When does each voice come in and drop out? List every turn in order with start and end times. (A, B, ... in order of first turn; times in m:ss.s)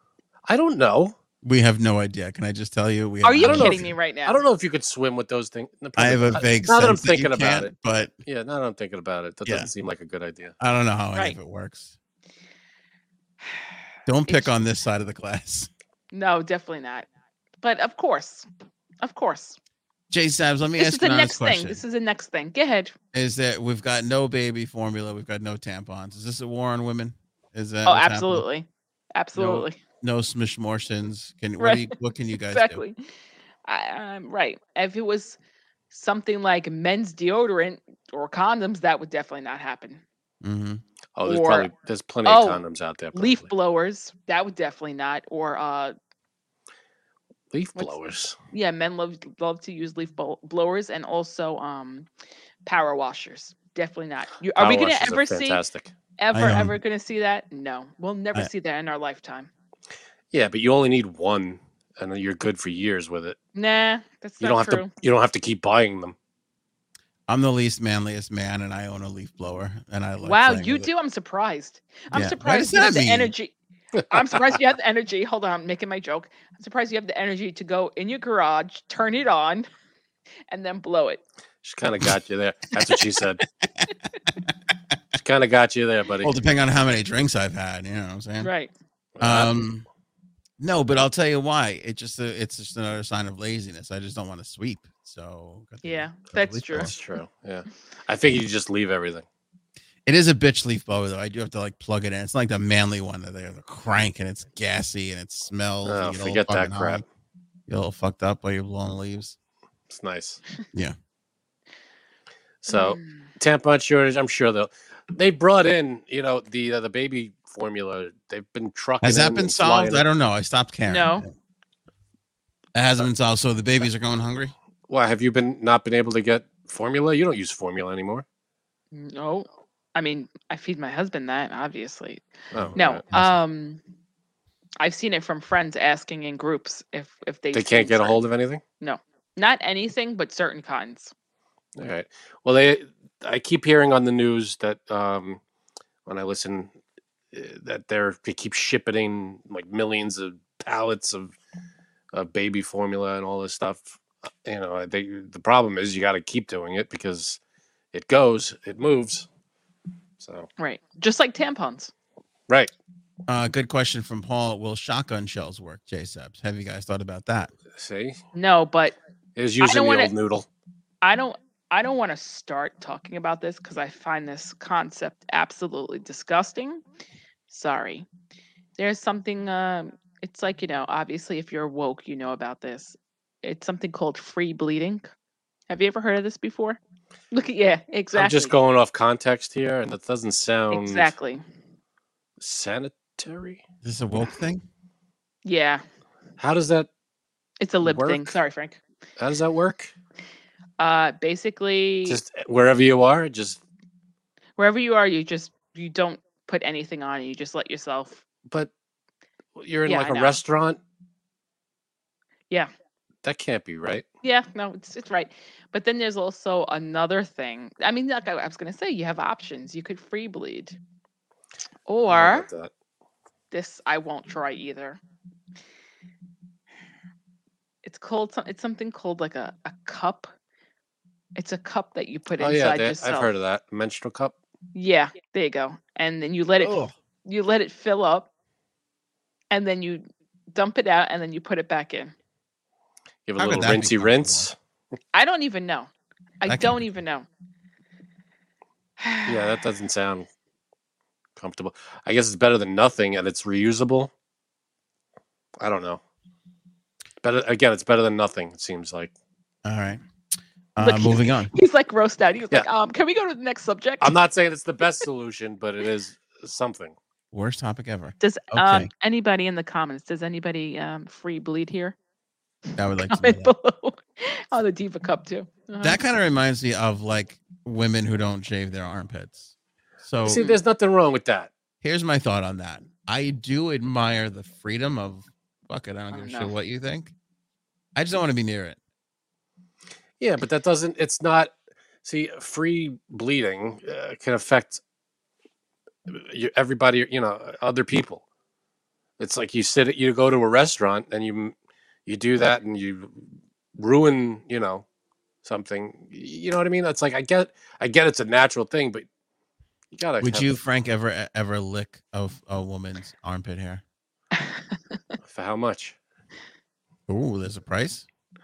0:00.4-0:01.1 A
0:01.4-0:03.9 B
0:03.2-0:04.4 C
0:03.4-0:07.7 A
0:06.0-0:08.1 B
0:08.2-0:10.6 A
0:10.6-0:11.9 B
0:14.0-0:15.7 B
0:16.1-0:17.0 C
0:17.6-0:18.4 C
0:19.0-0:19.6 C
0:20.1-0:21.8 B
0:20.8-0:22.9 C
0:23.1-0:28.4 B
0:27.8-0:29.8 C
0:29.3-0:32.8 B
0:31.6-0:31.9 C
0:32.5-0:33.0 C
0:33.6-0:35.4 C
0:35.9-0:40.0 C
0:40.4-0:40.8 B
0:41.2-0:43.5 A
0:41.2-0:41.7 C
0:42.2-0:42.6 C
0:43.1-0:45.9 C
0:47.5-0:48.4 A
0:48.5-0:52.1 C
0:52.6-0:55.6 C
0:54.6-0:55.9 A
0:56.2-0:59.5 C
0:56.3-0:56.8 B
1:00.3-1:03.4 A
1:03.5-1:04.9 C
1:04.4-1:06.2 A
1:07.3-1:10.9 B
1:10.2-1:13.5 C
1:12.1-1:13.3 B
1:14.1-1:19.7 C
1:20.5-1:21.2 C
1:21.6-1:23.4 A
1:25.2-1:26.3 A
1:26.2-1:28.5 B
1:28.4-1:28.7 C
1:29.2-1:29.5 A
1:29.2-1:29.8 B
1:30.6-1:36.9 B
1:35.8-1:36.9 C
1:36.8-1:39.2 A
1:40.0-1:47.0 B
1:45.8-1:47.0 A
1:47.7-1:49.4 B
1:49.9-1:50.4 A
1:52.6-2:00.0 A
1:52.7-1:53.1 C
1:59.0-2:01.3 B
2:00.9-2:01.2 C
2:02.7-2:04.5 B
2:04.9-2:08.2 A
2:08.9-2:13.8 C
2:12.5-2:13.0 A
2:12.6-2:13.4 B
2:14.8-2:18.2 C
2:17.5-2:18.6 A
2:18.8-2:21.1 C
2:21.8-2:25.4 A
2:26.0-2:26.7 A
2:27.3-2:31.4 A
2:32.1-2:37.4 A
2:37.9-2:39.3 A
2:40.2-2:40.5 A
2:40.6-2:41.9 C
2:43.3-2:47.5 B
2:47.7-2:48.2 A
2:48.3-2:49.0 C
2:49.4-2:50.5 A
2:49.6-2:50.1 C
2:51.0-2:56.8 C
2:57.5-2:58.0 C
2:58.8-3:05.0 C
3:05.7-3:06.8 C
3:07.3-3:08.5 C
3:08.1-3:11.1 A
3:10.7-3:11.4 C
3:12.4-3:13.6 A
3:13.8-3:14.6 B
3:15.4-3:15.8 C
3:16.4-3:16.9 A
3:17.6-3:18.8 C
3:17.8-3:18.3 A
3:19.2-3:19.9 A
3:20.8-3:22.2 C
3:22.0-3:23.6 A
3:24.6-3:28.2 C
3:29.5-3:30.8 A
3:29.9-3:30.4 C
3:33.2-3:34.0 A
3:34.2-3:40.8 C
3:41.9-3:42.5 C
3:42.1-3:42.7 A
3:43.5-3:45.0 C
3:47.8-3:50.3 C
3:51.4-3:53.3 C
3:52.4-3:54.3 A
3:54.7-3:58.3 C
3:56.7-3:56.9 B
3:59.5-4:02.1 C
4:03.2-4:04.5 A
4:03.4-4:04.5 B
4:05.1-4:05.9 C
4:06.4-4:07.3 C
4:06.5-4:06.8 B
4:09.0-4:09.6 C
4:09.2-4:10.3 A
4:11.4-4:14.1 A
4:15.6-4:16.0 A
4:17.2-4:19.1 A
4:19.6-4:20.0 B
4:20.8-4:21.5 B
4:20.8-4:24.1 C
4:24.0-4:26.9 A
4:27.3-4:28.9 B
4:28.2-4:32.0 C
4:32.8-4:33.5 B
4:33.0-4:36.0 C
4:35.8-4:39.5 B
4:40.0-4:40.4 B
4:40.2-4:41.5 A
4:40.3-4:40.6 C
4:41.8-4:47.1 B
4:46.1-4:46.5 C
4:48.0-4:48.8 B
4:50.2-4:54.8 A
4:56.1-4:58.2 A
4:59.2-5:01.5 A
5:02.0-5:04.8 A
5:05.4-5:09.0 A
5:09.9-5:10.5 A
5:10.2-5:13.8 B
5:15.2-5:16.0 A
5:17.1-5:18.0 B